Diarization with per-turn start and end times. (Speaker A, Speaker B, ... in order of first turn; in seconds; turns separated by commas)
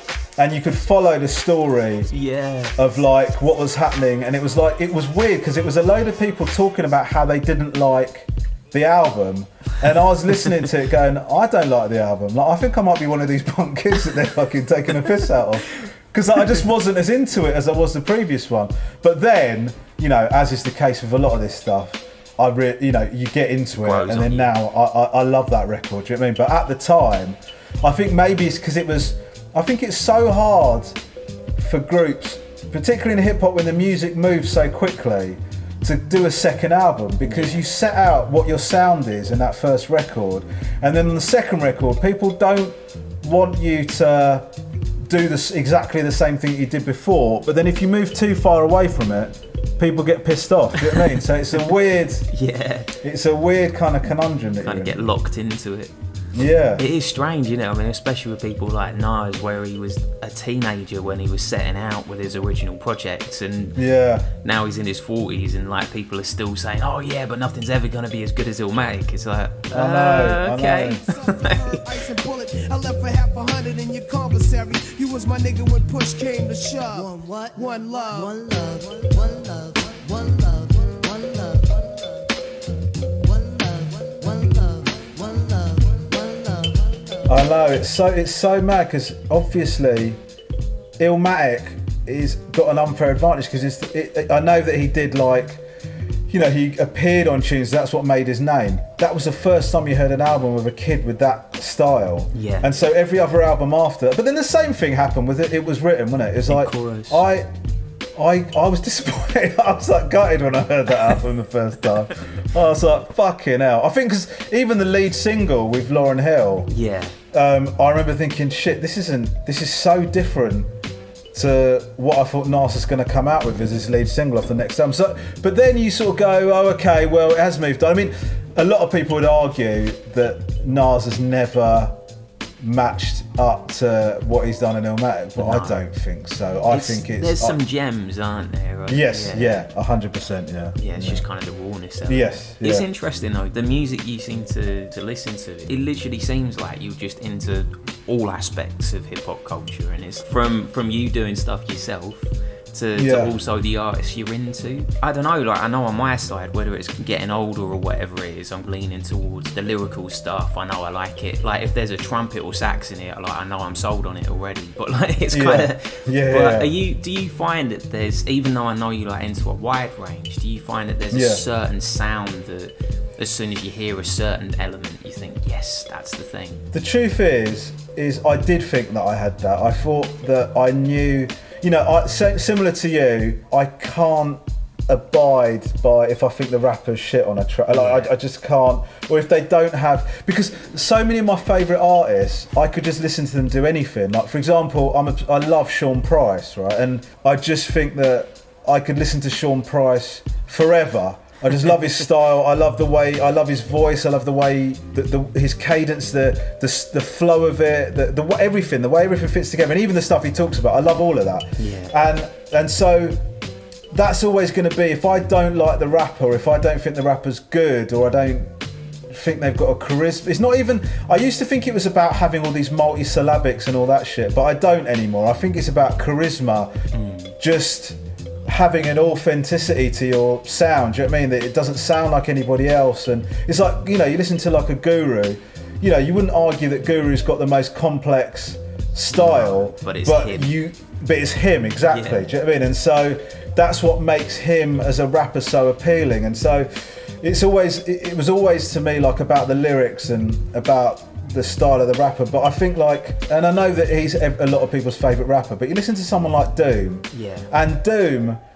Speaker A: 0.4-2.1, Speaker B: 2.1-2.9, Speaker A: 2.8-31.0, Speaker B: 23.8-24.5, Speaker A: 31.6-44.5, Speaker B: 37.3-37.6, Speaker A: 45.1-52.3, Speaker B: 52.3-52.9, Speaker A: 53.0-55.1, Speaker B: 54.6-55.9, Speaker A: 56.3-56.8, Speaker B: 56.8-63.8, Speaker A: 63.8-64.3, Speaker B: 64.4-71.8, Speaker A: 69.7-71.0, Speaker C: 71.1-79.4, Speaker D: 76.9-81.7, Speaker D: 83.3-86.7, Speaker A: 87.3-90.2, Speaker A: 91.0-95.7, Speaker A: 96.3-107.5, Speaker B: 102.3-102.7, Speaker B: 106.5-107.3, Speaker A: 108.2-116.7, Speaker B: 116.7-117.2, Speaker A: 117.3-120.7, Speaker A: 121.3-132.0, Speaker A: 132.6-137.6, Speaker B: 135.4-135.8, Speaker B: 136.7-139.7, Speaker A: 138.9-141.2, Speaker B: 140.8-176.7, Speaker A: 142.1-142.9, Speaker A: 152.9-153.3, Speaker A: 165.3-166.7, Speaker A: 171.1-171.4, Speaker A: 176.7-213.2, Speaker B: 187.7-188.1, Speaker B: 211.6-211.9, Speaker A: 213.9-218.5, Speaker A: 219.1-226.7, Speaker B: 226.9-227.3, Speaker A: 227.4-258.4, Speaker B: 239.1-240.5, Speaker B: 241.9-242.3, Speaker B: 257.1-257.5